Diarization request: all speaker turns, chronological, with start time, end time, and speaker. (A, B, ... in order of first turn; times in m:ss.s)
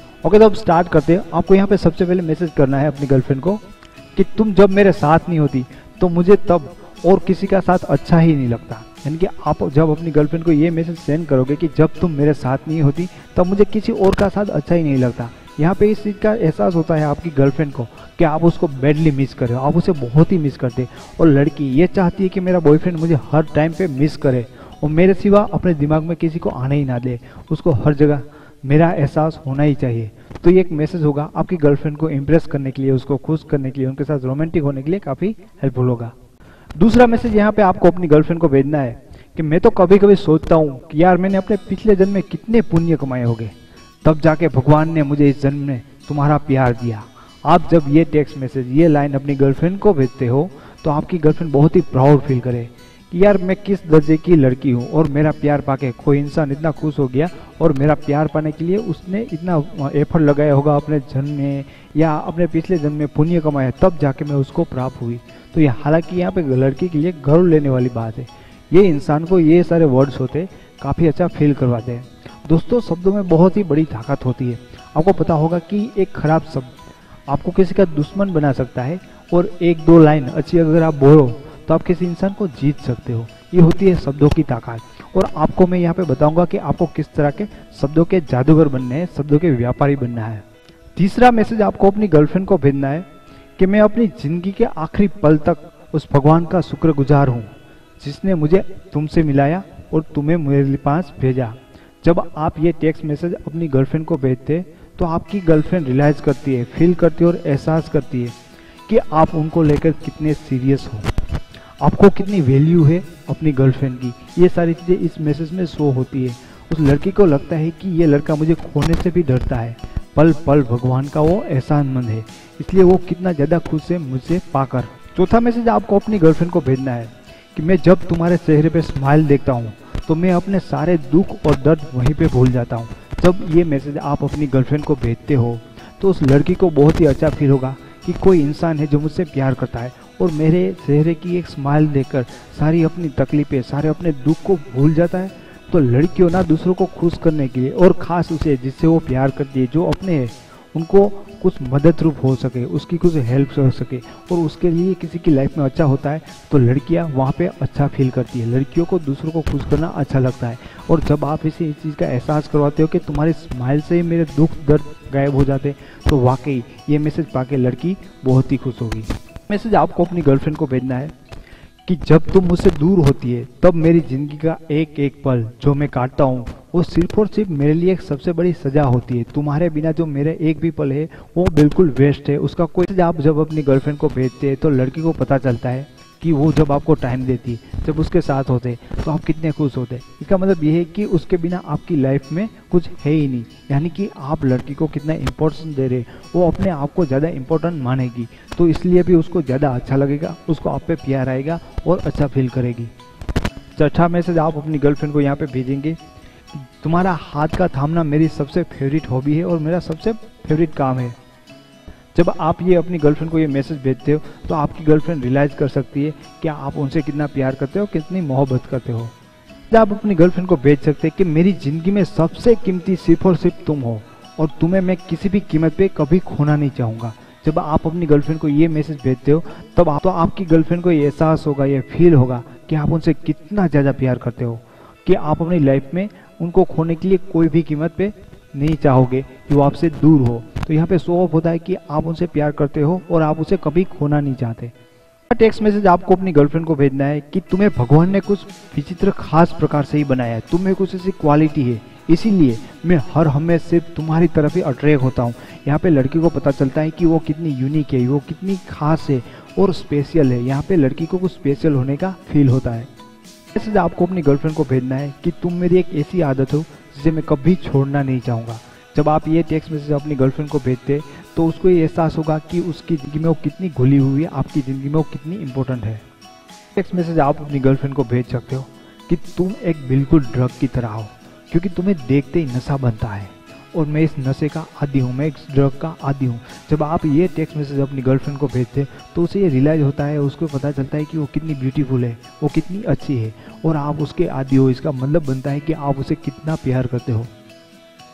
0:00.2-0:03.6 A
0:04.1-0:36.1 A
0:36.7-1:16.8 A
1:17.3-1:30.4 A
1:31.0-1:33.1 A
1:33.6-1:48.3 A
1:48.9-1:51.1 A
1:51.8-2:51.1 A
2:51.8-3:22.9 A
3:23.7-3:26.0 A
3:26.5-3:31.2 A
3:32.1-3:39.1 A
3:39.7-4:04.7 A
4:05.3-4:22.9 A
4:23.5-4:36.0 A
4:36.8-4:57.3 A